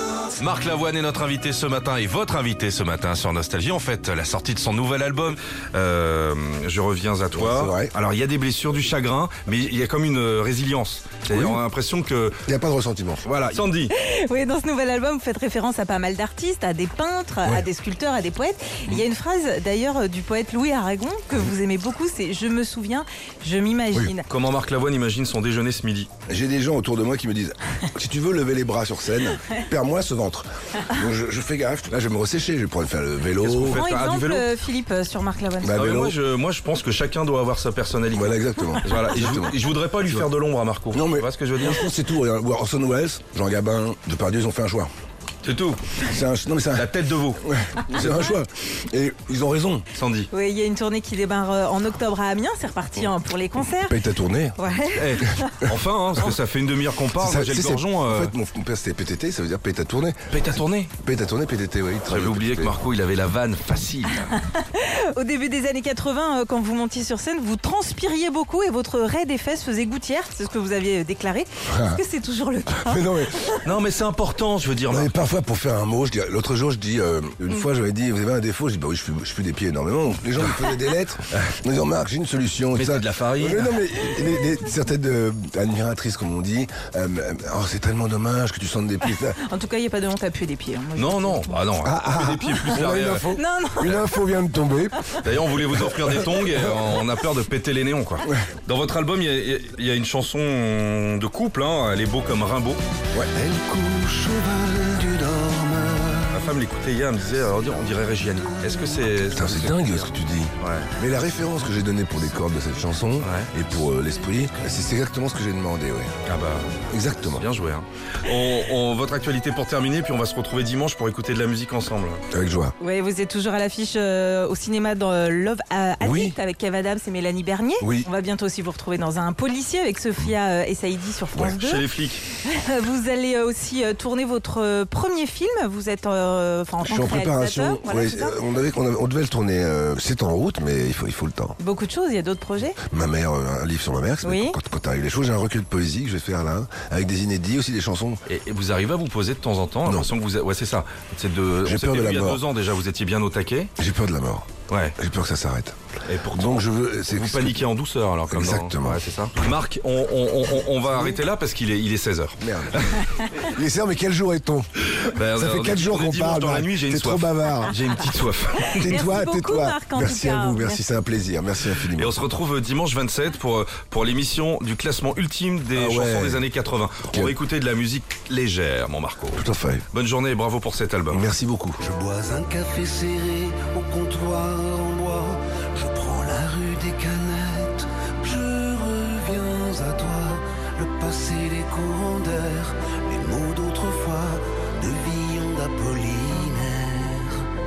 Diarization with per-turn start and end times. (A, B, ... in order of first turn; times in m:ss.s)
0:00.4-0:12.4 A
0:07.3-0:07.9 B
0:11.3-0:11.6 B
0:12.5-0:13.3 B
0:13.2-0:13.9 A
0:13.9-0:24.3 C
0:24.3-0:26.1 A
0:26.3-0:33.8 B
0:33.4-0:34.5 A
0:33.7-0:35.8 C
0:35.6-0:36.2 B
0:35.7-0:41.9 A
0:38.1-0:40.3 B
0:40.9-0:44.9 B
0:45.4-0:46.0 A
0:46.0-0:49.9 B
0:46.7-0:48.3 A
0:49.9-0:50.3 A
0:50.3-0:54.0 C
0:53.8-0:54.6 B
0:54.6-0:55.7 C
0:55.0-0:58.3 A
0:57.2-1:00.4 B
1:00.3-1:00.9 A
1:01.0-1:02.8 B
1:02.1-1:04.3 A
1:04.2-1:13.7 C
1:11.7-1:12.0 B
1:12.7-1:13.5 B
1:13.6-1:15.1 A
1:14.9-1:29.4 B
1:22.7-1:23.8 A
1:29.3-1:31.6 C
1:31.0-1:33.3 A
1:31.8-1:35.1 B
1:33.3-1:34.1 C
1:35.2-1:42.8 A
1:43.4-1:46.3 D
1:46.3-1:50.9 A
1:49.3-1:56.1 B
1:53.2-1:53.5 A
1:56.2-2:02.2 A
1:56.9-1:57.4 B
2:02.3-2:02.7 B
2:02.8-2:11.8 C
2:06.0-2:06.4 B
2:07.8-2:08.1 B
2:11.5-2:12.2 A
2:12.4-2:18.4 C
2:16.8-2:21.6 B
2:21.6-2:22.8 C
2:22.8-2:28.2 B
2:24.2-2:24.6 C
2:28.2-2:33.7 A
2:29.8-2:30.1 B
2:31.6-2:32.4 B
2:33.8-2:37.6 B
2:34.7-2:34.9 A
2:36.1-2:43.2 A
2:38.3-2:39.0 B
2:42.4-2:47.8 B
2:44.9-2:48.8 A
2:48.6-2:50.8 C
2:48.6-2:52.2 B
2:51.8-3:01.3 A
2:55.8-2:56.4 B
2:59.3-2:59.8 B
3:01.1-3:01.8 B
3:01.8-3:17.5 D